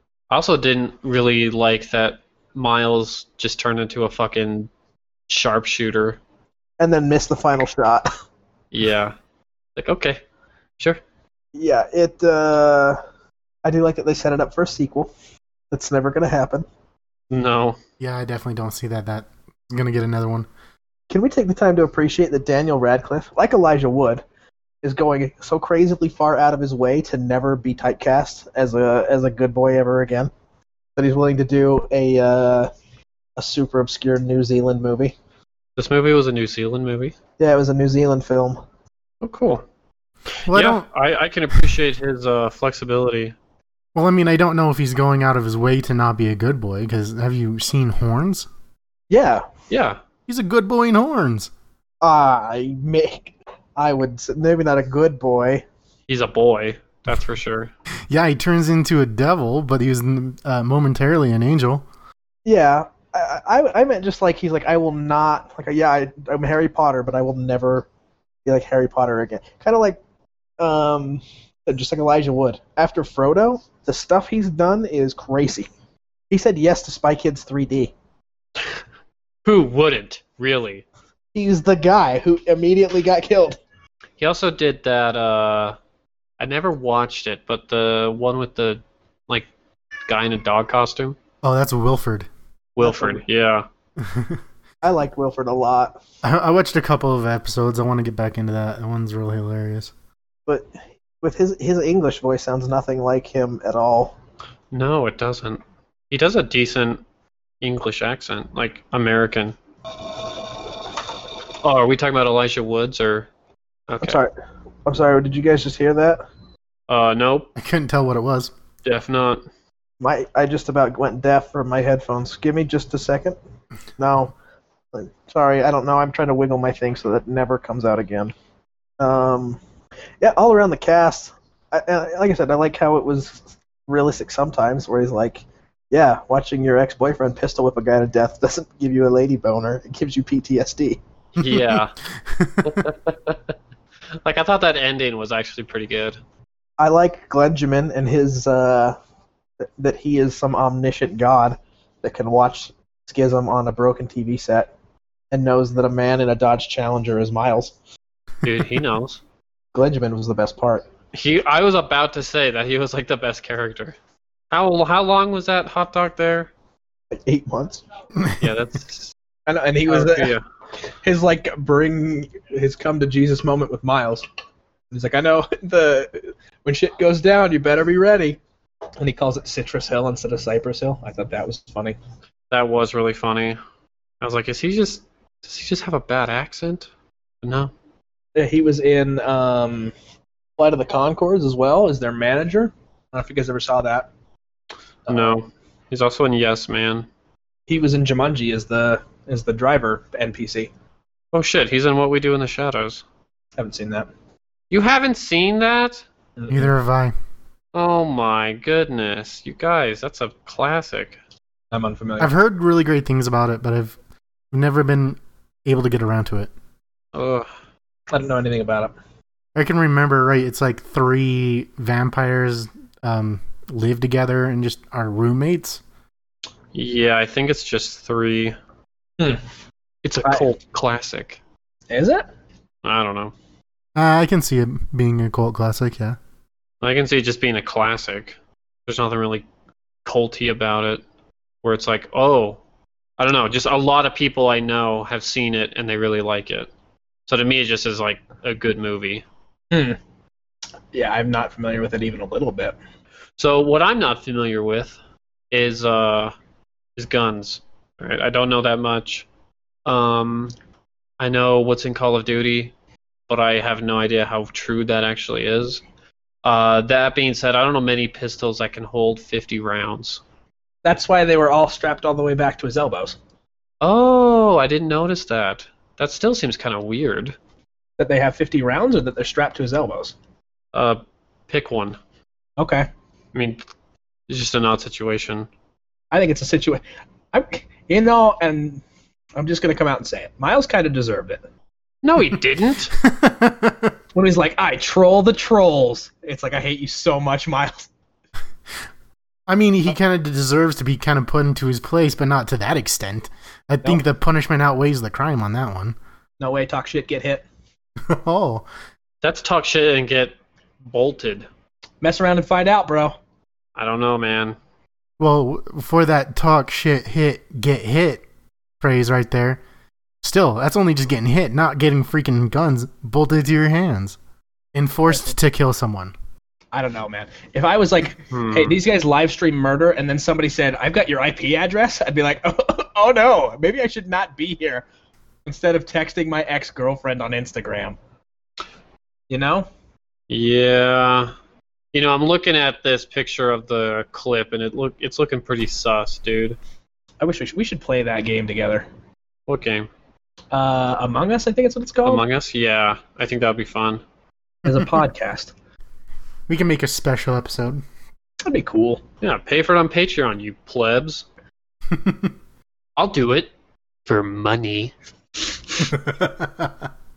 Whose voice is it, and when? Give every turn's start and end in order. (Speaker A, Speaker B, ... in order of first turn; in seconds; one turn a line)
Speaker A: 0.3-4.7
Speaker A: 5.3-6.2
Speaker B: 6.8-8.1
Speaker A: 8.7-9.1
Speaker A: 9.8-10.2
Speaker B: 11.5-13.0
Speaker B: 13.6-15.1
Speaker B: 15.7-16.6
Speaker A: 17.3-17.8
Speaker C: 18.0-20.5
Speaker B: 21.1-24.2
Speaker B: 24.8-30.3
Speaker B: 30.9-32.7
Speaker B: 33.4-35.1
Speaker A: 35.8-37.1
Speaker B: 37.4-38.6
Speaker A: 39.2-39.6
Speaker C: 40.5-40.9
Speaker A: 40.5-43.3
Speaker C: 43.9-48.5
Speaker B: 49.1-49.5
Speaker A: 49.7-50.0
Speaker C: 50.3-51.5
Speaker B: 52.0-55.6
Speaker A: 56.1-57.7
Speaker C: 58.1-61.9
Speaker B: 62.4-67.9
Speaker B: 68.5-70.0
Speaker B: 70.6-75.7
Speaker B: 76.3-77.9
Speaker A: 79.4-80.8
Speaker B: 81.3-83.6
Speaker A: 84.2-85.8
Speaker A: 86.4-89.5
Speaker A: 90.1-91.2
Speaker C: 91.4-92.3
Speaker A: 92.8-93.7
Speaker B: 92.8-93.2
Speaker C: 94.0-94.4
Speaker B: 94.8-96.0
Speaker C: 96.2-99.9
Speaker B: 101.2-104.1
Speaker A: 104.7-107.0
Speaker A: 107.6-109.6
Speaker A: 111.6-113.3
Speaker A: 113.9-114.2
Speaker B: 114.0-114.3
Speaker B: 114.8-116.2
Speaker A: 116.9-117.5
Speaker C: 117.5-118.5
Speaker A: 118.8-119.4
Speaker B: 120.0-123.3
Speaker B: 124.0-124.3
Speaker B: 124.9-128.3
Speaker B: 129.0-129.6
Speaker B: 130.2-141.0
Speaker A: 141.3-141.9
Speaker C: 141.4-142.8
Speaker A: 142.6-143.5
Speaker A: 144.2-146.2
Speaker B: 146.8-149.0
Speaker B: 149.6-154.7
Speaker B: 155.3-157.7
Speaker A: 158.4-159.2
Speaker B: 159.7-160.8
Speaker A: 161.1-164.0
Speaker A: 164.5-166.5
Speaker B: 167.1-167.8
Speaker A: 168.4-169.1
Speaker B: 169.5-170.3
Speaker A: 169.9-170.4
Speaker B: 171.0-174.2
Speaker B: 174.9-178.4
Speaker B: 179.0-182.0
Speaker A: 182.5-183.6
Speaker A: 184.2-186.9
Speaker A: 187.4-187.7
Speaker B: 188.3-189.9
Speaker B: 190.6-194.1
Speaker B: 195.1-195.3
Speaker A: 195.1-197.1
Speaker B: 197.7-200.7
Speaker A: 201.3-203.0
Speaker B: 203.6-204.1
Speaker A: 204.7-206.0
Speaker B: 206.4-206.7
Speaker C: 206.5-207.1
Speaker A: 207.7-211.2
Speaker B: 211.7-212.3
Speaker C: 212.2-214.0
Speaker C: 214.5-216.5
Speaker A: 217.1-217.5
Speaker B: 218.1-218.9
Speaker C: 219.5-225.8
Speaker A: 226.7-228.6
Speaker A: 230.0-231.4
Speaker B: 231.9-232.3
Speaker A: 232.8-233.3
Speaker C: 233.9-236.2
Speaker A: 236.8-239.4
Speaker A: 240.0-241.0
Speaker A: 241.6-242.6
Speaker A: 243.2-246.7
Speaker A: 247.3-249.2
Speaker B: 249.7-250.0
Speaker B: 250.9-252.8
Speaker A: 253.4-255.0
Speaker A: 255.5-256.3
Speaker A: 256.9-259.2
Speaker A: 259.9-260.5
Speaker A: 261.2-262.7
Speaker A: 263.3-265.8
Speaker A: 266.4-270.2
Speaker B: 270.8-273.2
Speaker A: 273.8-277.4
Speaker B: 278.0-280.1
Speaker A: 280.7-282.0
Speaker B: 282.6-282.9
Speaker A: 283.3-283.6
Speaker A: 284.3-285.5
Speaker B: 286.1-288.8
Speaker B: 289.4-291.4
Speaker A: 292.0-292.9
Speaker C: 293.0-293.9
Speaker B: 294.1-297.9
Speaker C: 299.5-305.9
Speaker B: 306.4-307.4
Speaker C: 308.1-308.6
Speaker A: 309.2-311.5
Speaker B: 312.0-313.1
Speaker A: 313.8-314.6
Speaker C: 315.2-318.2
Speaker C: 318.8-319.6
Speaker C: 320.2-324.2
Speaker C: 324.7-326.1
Speaker B: 326.7-334.8
Speaker A: 328.3-328.8
Speaker B: 335.4-338.0
Speaker B: 339.3-339.7
Speaker A: 340.3-341.3
Speaker A: 341.9-346.6
Speaker B: 347.2-348.9
Speaker A: 349.5-349.9
Speaker B: 350.5-352.2
Speaker A: 352.0-354.0
Speaker B: 354.6-355.5
Speaker C: 354.6-354.9
Speaker C: 356.5-357.8
Speaker B: 358.4-359.0
Speaker A: 359.2-361.2
Speaker C: 361.9-362.3
Speaker A: 363.0-363.5
Speaker A: 364.1-364.9
Speaker C: 366.0-366.8